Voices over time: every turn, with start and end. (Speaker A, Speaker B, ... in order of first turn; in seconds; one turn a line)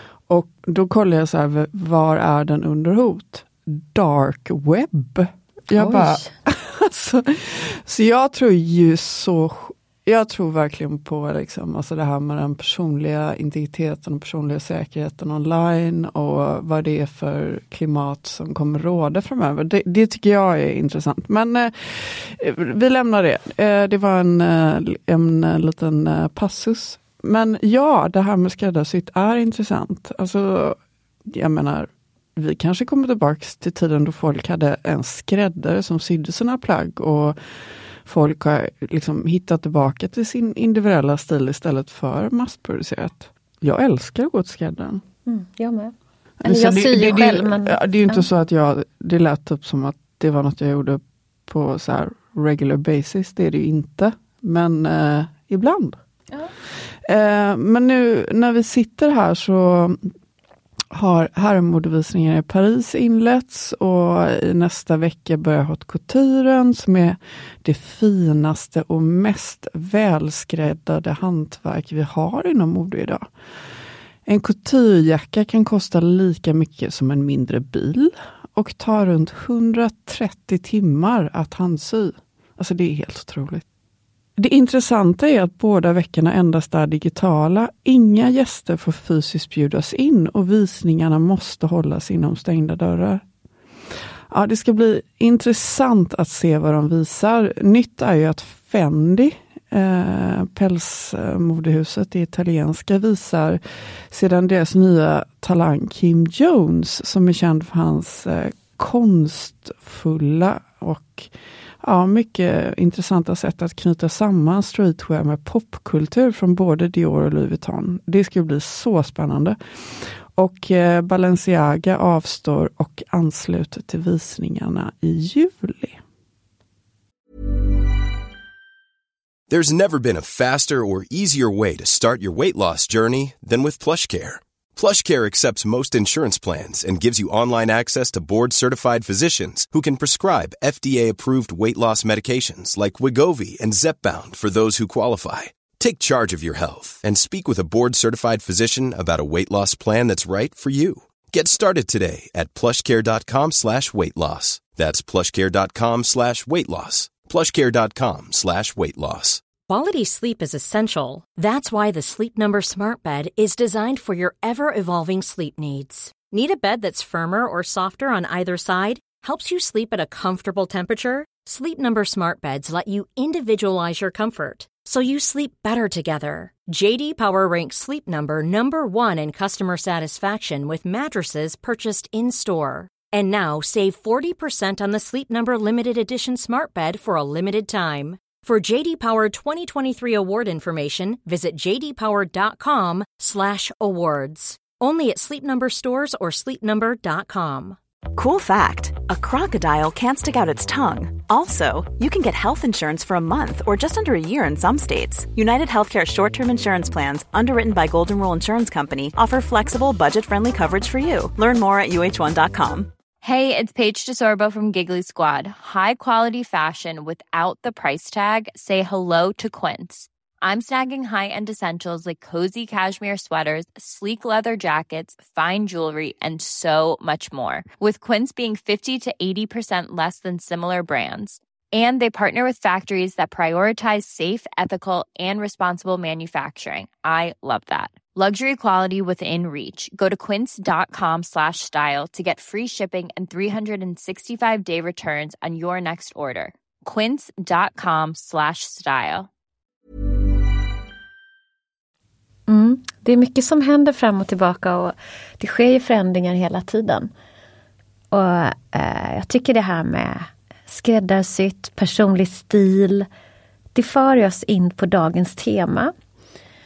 Speaker A: 0.3-37.4
Speaker B: 5.7-6.3
Speaker A: 38.0-45.0
Speaker B: 45.2-48.2
Speaker A: 46.4-56.0
Speaker A: 57.0-60.1
Speaker A: 60.9-73.3
Speaker A: 74.2-83.6
Speaker A: 84.4-93.2
Speaker A: 94.3-126.0
Speaker C: 129.5-159.4
Speaker D: 159.7-197.8
Speaker E: 198.1-212.9
Speaker F: 213.2-249.3
Speaker B: 252.5-257.1
Speaker B: 258.1-263.1
Speaker B: 263.7-265.9